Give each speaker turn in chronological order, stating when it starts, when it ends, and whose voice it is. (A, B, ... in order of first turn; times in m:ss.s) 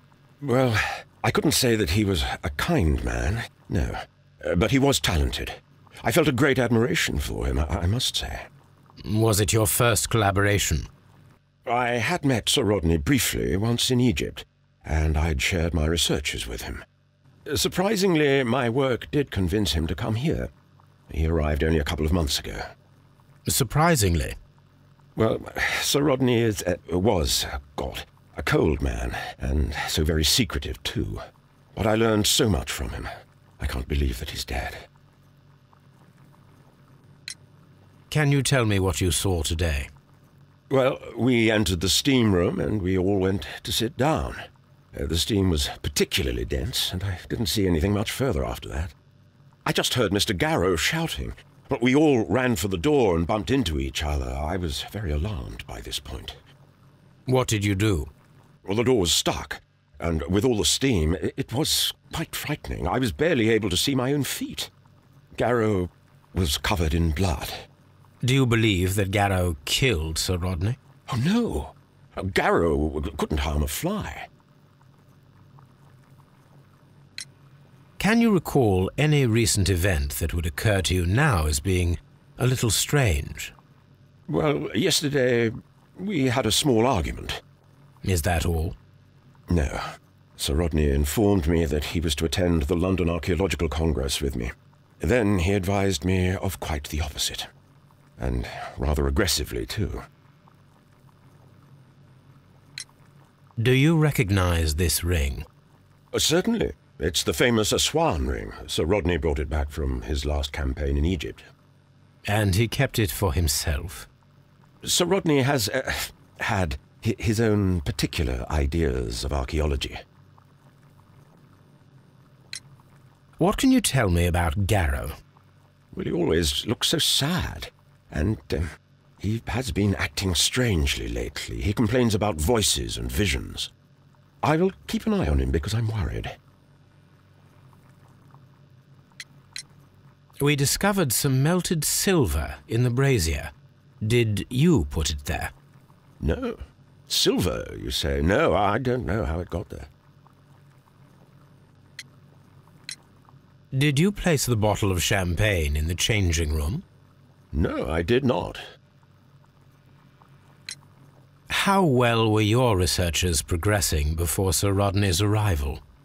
0:00.4-0:08.5 A
0:09.0-0:10.9 B
0:11.6-0:16.8 A
0:17.5-0:20.5 A
0:21.1-0:22.6 A
0:23.4-0:24.4 B
0:25.2-0:31.2 A
0:31.7-0:33.1 A
0:33.6-0:34.8 A
0:38.1-0:39.9 B
0:40.7-0:44.4 A
0:44.9-0:48.9 A
0:49.6-0:56.4 A
0:57.2-0:58.1 B
0:58.6-1:04.7 A
1:05.4-1:07.6 A
1:08.2-1:10.8 B
1:11.1-1:14.3 A
1:18.0-1:23.5 B
1:24.3-1:27.4 A
1:28.0-1:28.8 B
1:29.5-1:37.5 A
1:38.2-1:40.0 A
1:43.6-1:45.4 B
1:46.1-1:51.4 A
1:52.2-1:54.1 B
1:54.8-2:00.0 A
2:03.4-2:05.2 B
2:05.9-2:13.7 A
2:14.4-2:16.4 A
2:20.4-2:25.5 B
2:26.2-2:29.9 A
2:33.7-2:36.8 B
2:37.5-2:38.6 A
2:41.5-2:45.8 B